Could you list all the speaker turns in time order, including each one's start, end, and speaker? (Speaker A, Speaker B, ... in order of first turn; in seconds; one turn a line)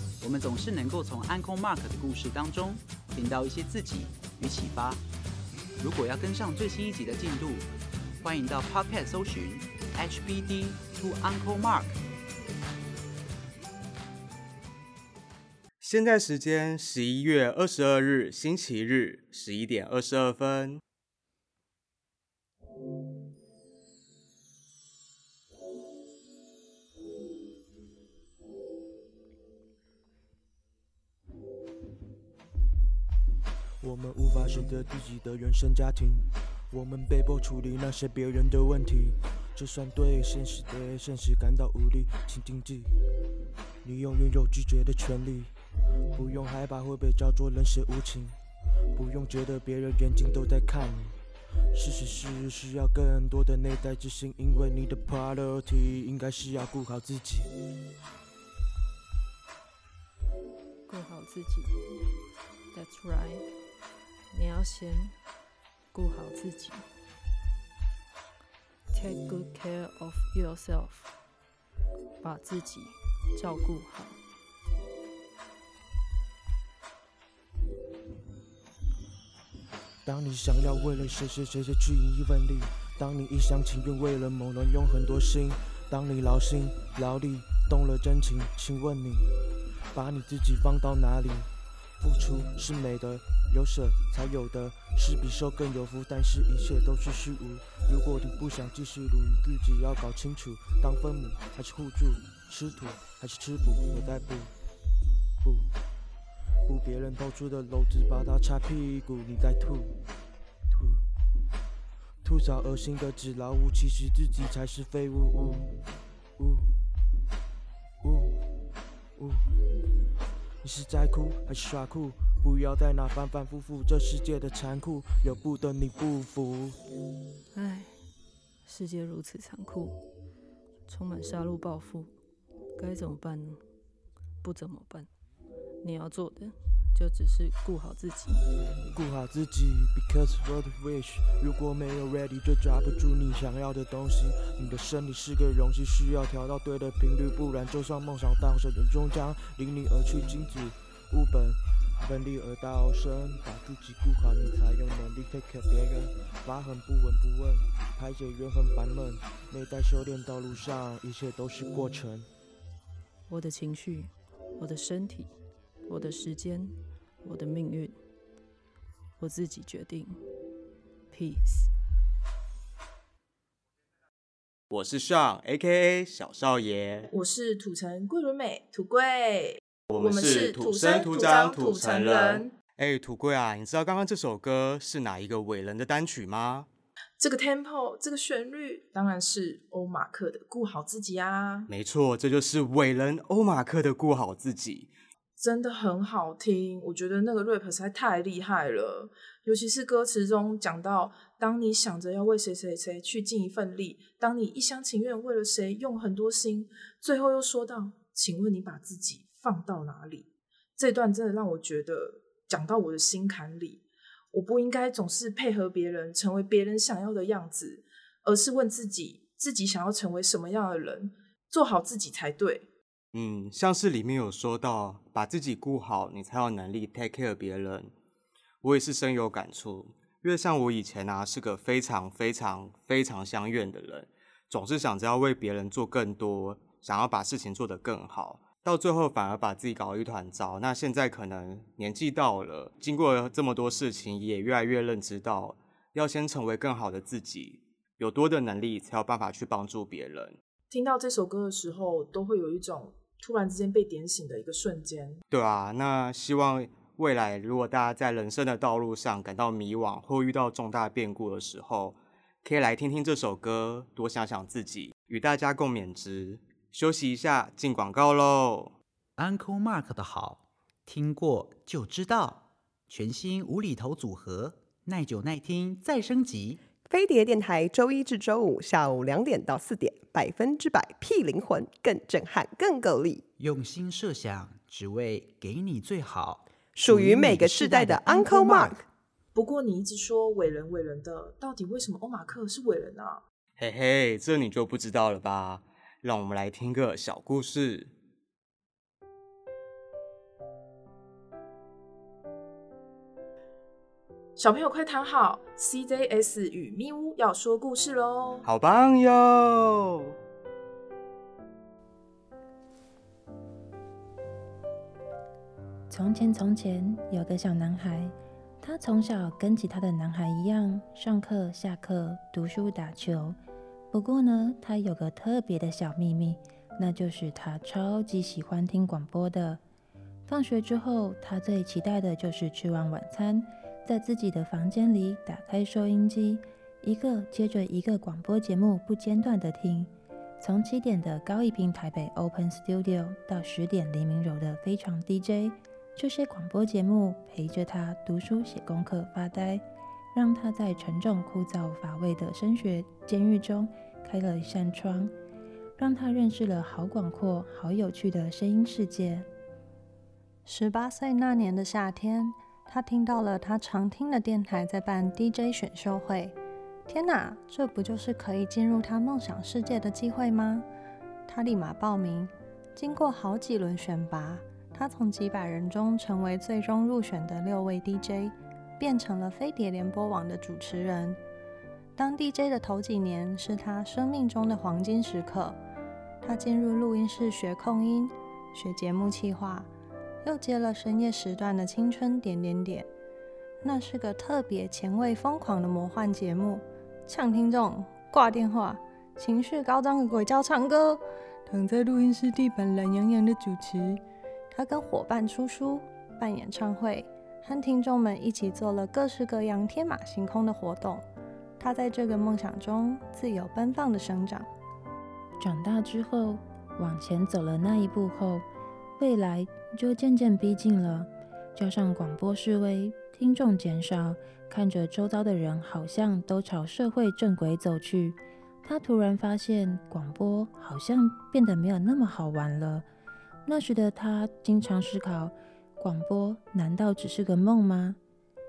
Speaker A: 0.2-5.0
Speaker A: 5.8-7.7
Speaker A: 8.2-12.0
Speaker B: 15.8-20.8
Speaker C: 33.8-42.9
Speaker C: 43.8-45.5
Speaker C: 46.1-48.3
Speaker C: 49.0-51.2
Speaker C: 51.7-57.5
Speaker D: 60.9-61.8
Speaker D: 62.7-63.5
Speaker D: 64.3-65.2
Speaker D: 65.9-66.9
Speaker D: 68.9-71.2
Speaker D: 72.2-74.2
Speaker C: 80.0-89.3
Speaker C: 90.0-91.5
Speaker C: 92.0-104.5
Speaker C: 106.7-110.0
Speaker C: 110.7-111.0
Speaker C: 112.2-115.7
Speaker C: 116.4-116.7
Speaker C: 118.0-118.3
Speaker C: 119.2-119.5
Speaker C: 120.6-126.8
Speaker D: 127.5-128.0
Speaker D: 128.7-130.0
Speaker D: 130.9-132.1
Speaker D: 132.8-133.6
Speaker D: 134.4-135.1
Speaker D: 135.8-138.4
Speaker C: 138.9-162.3
Speaker D: 163.3-165.3
Speaker D: 165.9-168.0
Speaker D: 169.2-170.2
Speaker D: 171.1-171.7
Speaker B: 174.7-177.1
Speaker E: 177.1-182.5
Speaker B: 179.9-186.7
Speaker E: 187.2-191.7
Speaker B: 191.7-194.9
Speaker E: 195.4-222.7
Speaker B: 223.1-227.9
Speaker B: 228.6-250.4
Speaker E: 250.7-255.2
Speaker B: 255.3-268.7
Speaker A: 269.2-276.6
Speaker F: 276.9-283.3
Speaker A: 283.4-288.8
Speaker F: 286.8-288.9
Speaker E: 289.4-293.2
Speaker B: 293.6-297.9
Speaker E: 304.4-308.4
Speaker B: 308.4-310.1
Speaker G: 315.9-323.4
Speaker G: 323.9-329.6
Speaker G: 330.3-355.1
Speaker G: 355.8-359.3
Speaker H: 360.5-366.4
Speaker H: 366.9-370.7
Speaker H: 371.3-381.2
Speaker H: 382.0-385.6
Speaker H: 386.2-389.7
Speaker H: 390.2-392.9
Speaker H: 393.6-404.0
Speaker H: 404.5-411.1
Speaker H: 411.6-414.5
Speaker G: 415.4-418.5
Speaker G: 419.0-432.9
Speaker G: 433.5-438.0